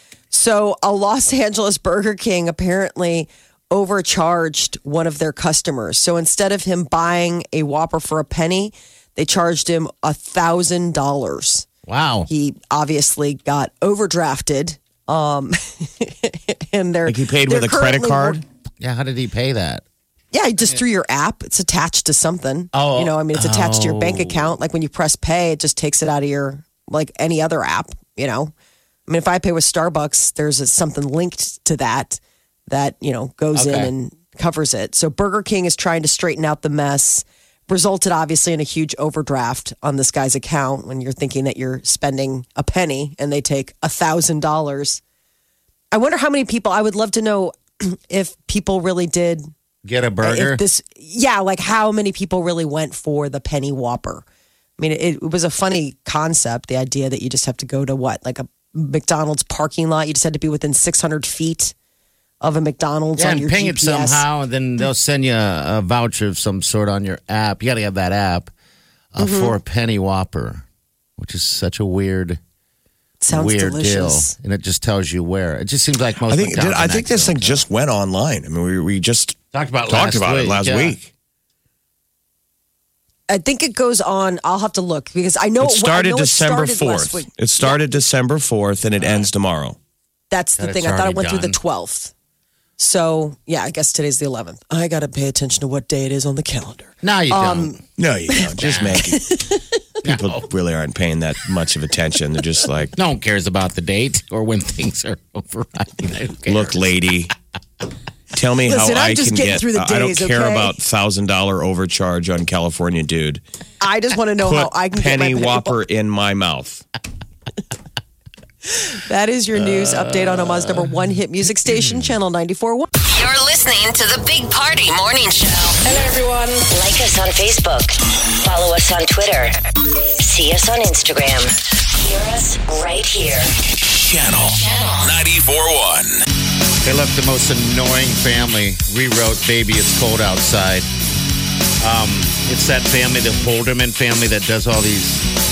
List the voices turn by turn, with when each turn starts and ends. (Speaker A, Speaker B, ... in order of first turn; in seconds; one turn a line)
Speaker A: 0.3-11.7
Speaker B: 11.9-12.3
Speaker A: 12.3-18.4
Speaker C: 17.1-18.4
Speaker B: 18.8-19.8
Speaker A: 20.3-28.5
Speaker B: 22.7-24.5
Speaker A: 29.1-45.0
Speaker B: 33.5-33.9
Speaker A: 45.9-49.5
Speaker B: 49.8-50.6
Speaker A: 50.2-54.2
Speaker A: 54.8-61.7
Speaker A: 62.4-64.2
Speaker B: 63.1-68.5
Speaker B: 69.1-70.6
Speaker A: 69.2-69.5
Speaker B: 71.2-72.4
Speaker A: 73.2-74.3
Speaker B: 73.3-77.6
Speaker C: 76.3-81.0
Speaker B: 79.5-81.0
Speaker A: 83.3-87.8
Speaker C: 85.6-89.8
Speaker A: 90.3-92.1
Speaker B: 90.6-91.6
Speaker A: 92.8-97.8
Speaker B: 97.0-97.8
Speaker C: 98.0-99.3
Speaker B: 98.6-99.1
Speaker A: 99.1-99.6
Speaker B: 100.0-100.5
Speaker C: 100.0-102.9
Speaker B: 102.9-106.9
Speaker C: 106.5-107.3
Speaker C: 108.3-113.4
Speaker A: 108.7-110.8
Speaker A: 113.8-115.8
Speaker C: 114.4-116.8
Speaker A: 118.6-122.9
Speaker B: 119.5-120.9
Speaker B: 121.7-122.1
Speaker D: 123.0-129.6
Speaker D: 130.2-133.5
Speaker E: 133.6-136.2
Speaker D: 134.6-135.1
Speaker B: 136.8-140.9
Speaker B: 141.8-145.3